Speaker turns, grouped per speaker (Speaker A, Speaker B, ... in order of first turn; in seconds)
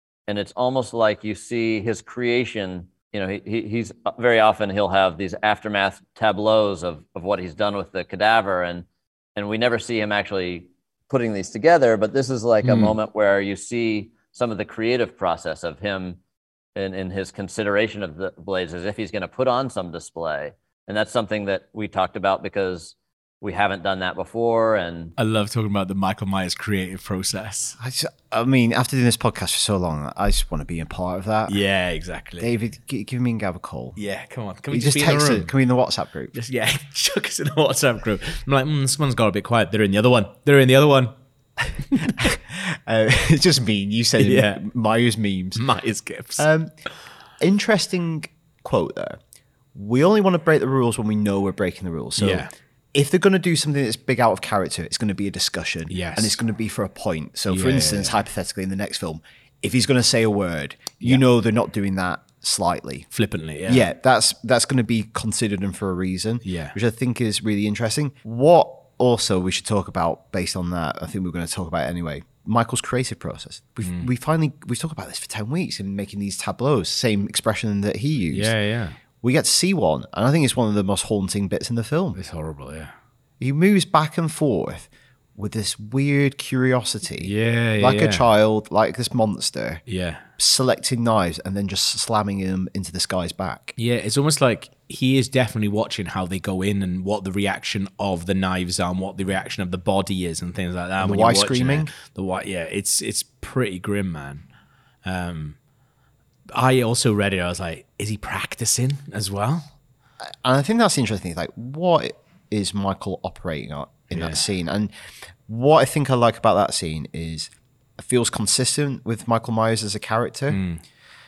Speaker A: 0.3-16.2, 16.8-25.1
Speaker B: 12.6-13.0, 25.2-27.8, 31.5-32.5, 34.0-35.5, 36.3-41.1, 44.2-44.6, 45.6-46.5, 52.2-52.5, 55.9-56.4, 57.5-58.2, 63.1-63.9, 66.4-66.8, 73.8-74.1, 78.3-79.0, 82.2-82.9, 87.2-88.3, 89.9-90.3, 93.8-104.5, 105.0-105.6, 106.5-109.7, 114.1-114.4, 120.5-120.8
Speaker C: 27.8-31.6, 32.4-34.0, 34.7-36.4, 42.0-45.6, 46.4-46.7, 47.4-49.2, 49.7-63.1, 63.7-78.5, 79.2-82.2, 83.4-89.8, 90.4-93.8, 101.0-101.9, 110.4-114.9, 115.5-120.6